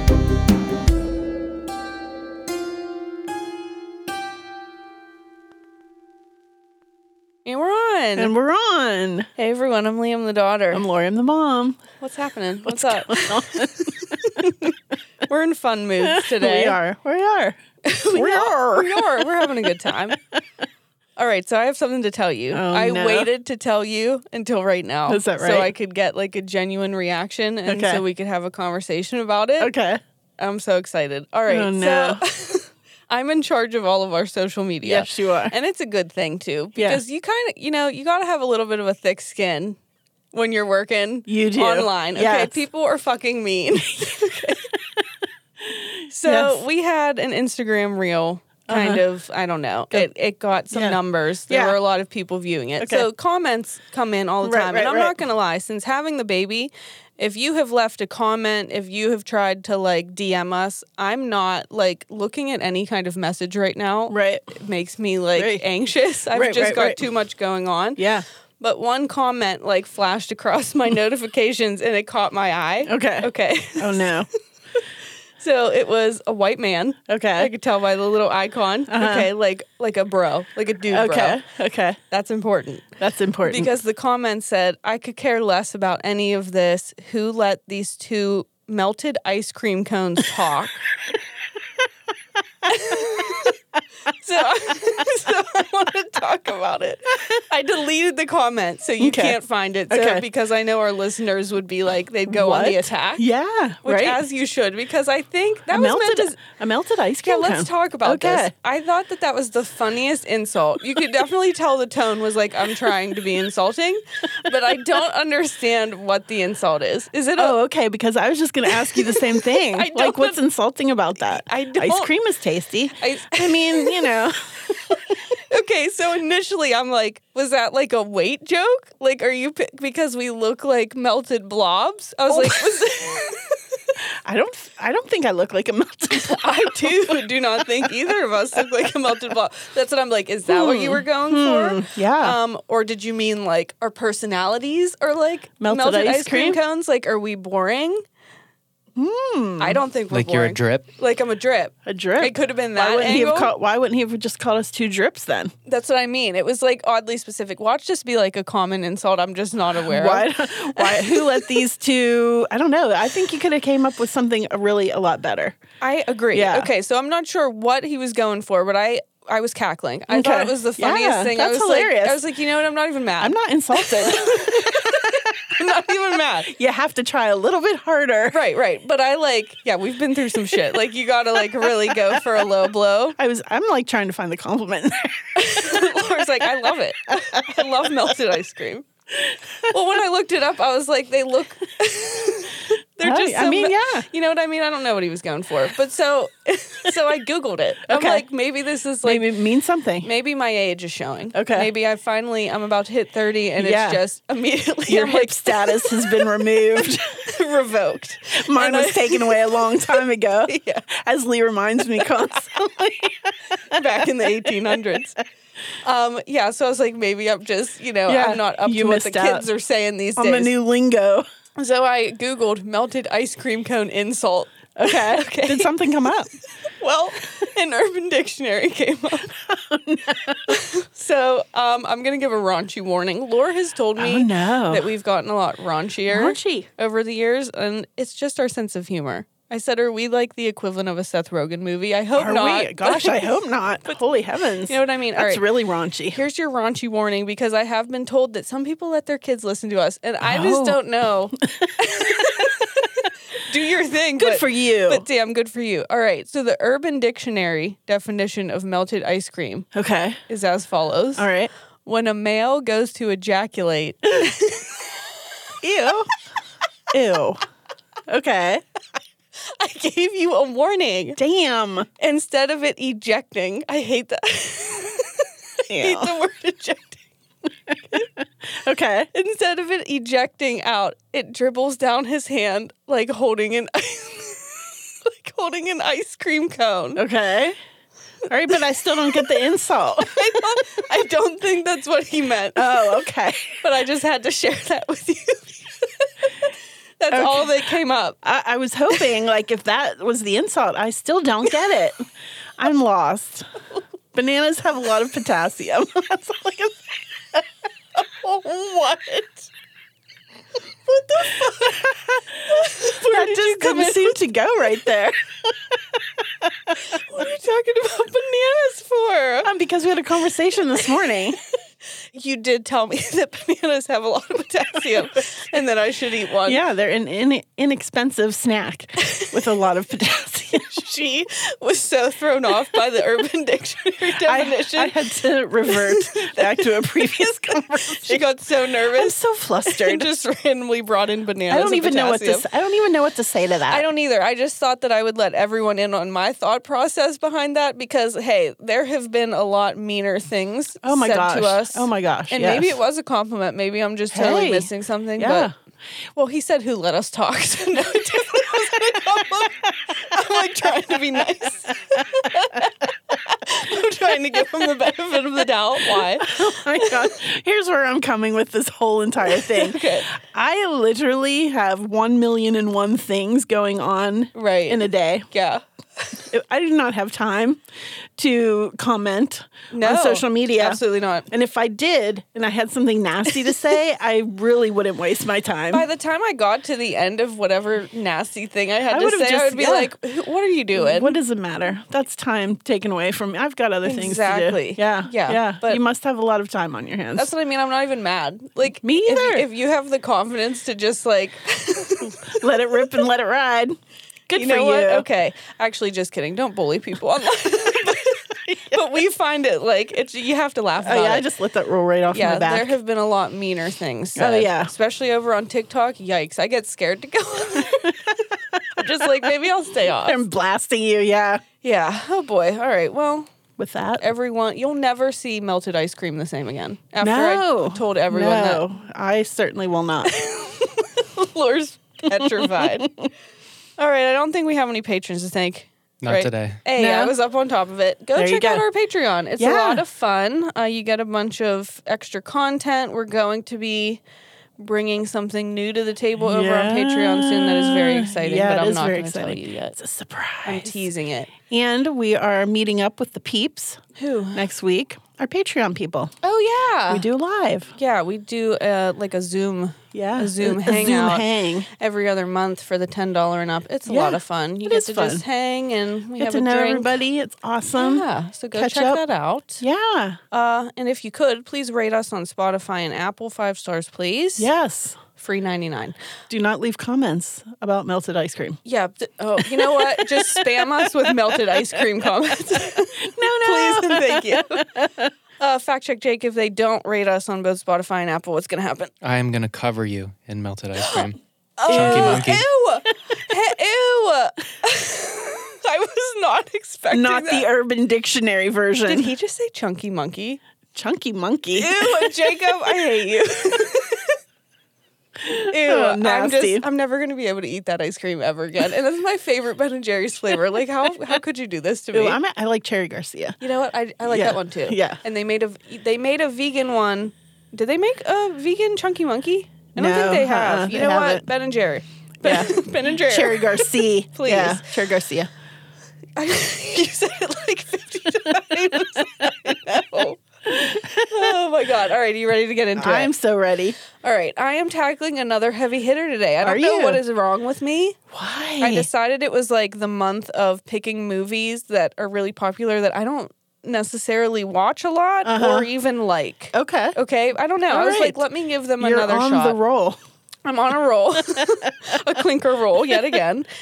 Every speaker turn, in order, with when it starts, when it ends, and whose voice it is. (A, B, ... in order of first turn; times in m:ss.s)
0:07.4-0:08.3 A
0:08.2-0:09.3 B
0:09.4-0:10.8 A
0:10.7-0:11.8 B
0:12.0-0:14.7 A
0:12.6-0:14.5 B
0:15.2-0:16.8 A
0:16.0-0:17.6 B
0:17.8-0:20.2 A
0:18.1-0:20.4 B
0:21.2-0:29.7 A
0:22.5-0:23.3 B
0:25.1-0:25.7 B
0:27.6-0:28.0 B
0:29.6-0:30.0 B
0:30.4-0:39.8 A
0:31.5-0:32.2 B
0:34.8-0:35.5 B
0:36.8-0:37.0 B
0:40.3-0:44.7 A
0:41.3-0:42.6 B
0:45.6-0:46.6 B
0:46.1-1:08.0 A
0:48.7-0:49.0 B
0:50.7-0:51.8 B
0:52.8-0:53.1 B
0:54.4-0:55.2 B
1:04.1-1:04.5 B
1:05.4-1:05.6 B
1:06.3-1:07.0 B
1:08.0-1:08.2 B
1:08.6-1:14.2 A
1:12.8-1:14.3 B
1:15.4-1:21.4 A
1:17.1-1:17.5 B
1:18.9-1:19.3 B
1:20.9-1:22.0 B
1:22.1-1:30.8 A
1:23.0-1:23.7 B
1:32.6-1:33.5 A
1:34.0-1:43.2 A
1:39.0-1:39.4 B
1:39.9-1:40.2 B
1:42.3-1:44.2 B
1:43.8-1:46.4 A
1:45.7-1:48.5 B
1:47.2-1:57.5 A
1:57.4-2:05.1 B
1:58.8-2:00.4 A
2:01.4-2:02.1 A
2:03.0-2:04.1 A
2:05.5-2:13.6 A
2:12.3-2:13.0 B
2:14.0-2:17.3 B
2:16.1-2:28.0 A
2:20.5-2:22.4 B
2:25.6-2:26.6 B
2:28.9-2:29.8 B
2:29.6-2:33.5 A
2:30.1-2:30.8 C
2:31.8-2:35.5 B
2:35.6-2:41.6 A
2:39.8-2:45.6 B
2:45.8-2:56.5 A
2:46.3-2:46.7 B
2:50.1-2:52.2 B
2:53.2-2:55.3 B
2:56.4-2:58.4 B
2:58.3-3:03.2 A
3:01.6-3:02.2 B
3:03.2-3:05.9 B
3:05.4-3:08.9 A
3:07.1-3:07.7 B
3:09.3-3:09.6 B
3:09.6-3:19.3 A
3:13.0-3:14.0 B
3:17.9-3:18.2 B
3:19.0-3:20.1 B
3:20.0-3:30.9 A
3:21.3-3:21.7 B
3:23.6-3:24.0 B
3:24.9-3:27.3 B
3:28.3-3:35.0 B
3:33.7-3:35.2 A
3:35.8-3:40.5 A
3:38.1-3:39.5 B
3:40.2-3:41.2 B
3:41.6-3:45.8 A
3:44.8-3:46.3 B
3:46.6-3:49.3 A
3:49.3-3:50.6 B
3:50.5-4:03.3 A
3:54.0-3:54.9 B
3:56.1-3:56.7 B
4:02.2-4:06.2 B
4:04.7-4:05.4 A
4:06.1-4:19.7 A
4:10.2-4:10.8 B
4:11.4-4:12.8 B
4:14.2-4:15.0 B
4:19.7-4:20.2 B
4:20.3-4:21.3 A
4:21.2-4:21.5 B
4:21.8-4:24.8 A
4:25.6-4:26.1 B
4:26.9-4:27.4 B
4:28.1-4:28.6 B
4:29.6-4:31.2 A
4:31.2-4:31.9 B
4:32.0-4:37.0 A
4:35.7-4:36.1 B
4:37.7-4:39.1 B
4:39.1-4:47.0 A
4:47.0-4:47.6 B
4:48.3-4:50.6 B
4:50.0-4:52.9 A
4:52.5-4:53.6 B
4:53.6-4:58.2 A
4:57.1-5:02.0 B
5:02.6-5:03.5 B
5:04.1-5:09.4 B
5:10.8-5:14.2 A
5:11.3-5:16.8 B
5:16.8-5:19.5 A
5:19.4-5:21.4 B
5:22.1-5:26.6 A
5:26.4-5:30.8 B
5:29.0-5:29.3 A
5:30.7-5:35.0 A
5:34.2-5:38.2 B
5:35.7-5:37.3 A
5:37.9-5:42.4 A
5:38.9-5:40.1 B
5:41.5-5:43.8 B
5:43.7-5:55.5 A
5:50.8-5:52.8 B
5:54.1-5:55.5 B
5:56.1-6:07.0 A
6:00.1-6:00.9 B
6:01.9-6:02.2 B
6:06.0-6:15.2 B
6:09.4-6:10.1 A
6:14.3-6:16.1 A
6:16.3-6:17.6 B
6:18.2-6:25.9 B
6:19.7-6:21.3 A
6:25.7-6:31.2 A
6:28.9-6:29.9 B
6:30.7-6:37.3 B
6:33.8-6:35.8 A
6:37.2-6:42.8 A
6:38.8-6:39.4 B
6:42.0-6:43.8 B
6:44.3-6:45.0 B
6:44.3-6:51.2 A
6:48.4-6:48.8 B
6:50.8-6:52.8 B
6:52.1-7:00.2 A
6:54.2-6:54.7 B
6:58.5-6:59.3 B
7:00.0-7:01.4 B
7:01.6-7:03.3 A
7:03.6-7:04.0 B
7:04.0-7:08.6 A
7:07.0-7:10.1 B
7:10.1-7:12.9 A
7:12.2-7:13.0 B
7:13.8-7:24.0 A
7:16.0-7:16.6 C
7:16.8-7:17.1 B
7:18.2-7:18.6 B
7:19.4-7:19.8 B
7:24.6-7:29.8 A
7:26.2-7:30.9 B
7:30.4-7:31.3 A
7:31.4-7:33.8 B
7:34.0-7:34.4 A
7:34.3-7:36.1 B
7:36.2-7:37.0 A
7:36.9-7:37.7 B
7:37.8-7:46.9 A
7:39.9-7:41.7 B
7:43.9-7:45.2 B
7:46.2-7:49.0 B
7:47.8-7:49.6 A
7:49.6-7:50.2 B
7:50.3-7:54.5 A
7:54.4-7:55.0 B
7:55.2-7:55.9 A
7:56.3-7:58.6 B
7:58.6-8:04.6 A
7:59.4-8:01.8 B
8:03.0-8:05.1 B
8:05.4-8:08.9 A
8:09.0-8:12.5 C
8:11.6-8:17.5 A
8:11.7-8:12.4 B
8:16.9-8:19.1 B
8:18.8-8:20.4 A
8:20.7-8:22.2 B
8:21.6-8:24.2 A
8:25.2-8:26.6 B
8:25.5-8:32.2 A
8:31.9-8:33.4 B
8:33.4-8:44.7 A
8:34.0-8:35.0 B
8:39.8-8:41.3 B
8:42.2-8:45.3 B
8:46.2-8:53.1 A
8:52.8-8:53.8 B
8:54.0-8:58.0 A
8:56.4-8:57.0 B
8:58.1-8:58.9 B
8:58.6-9:09.6 A
9:05.2-9:05.7 B
9:06.5-9:07.0 B
9:07.7-9:08.2 B
9:08.8-9:10.0 B
9:10.4-9:13.5 A
9:11.3-9:11.7 B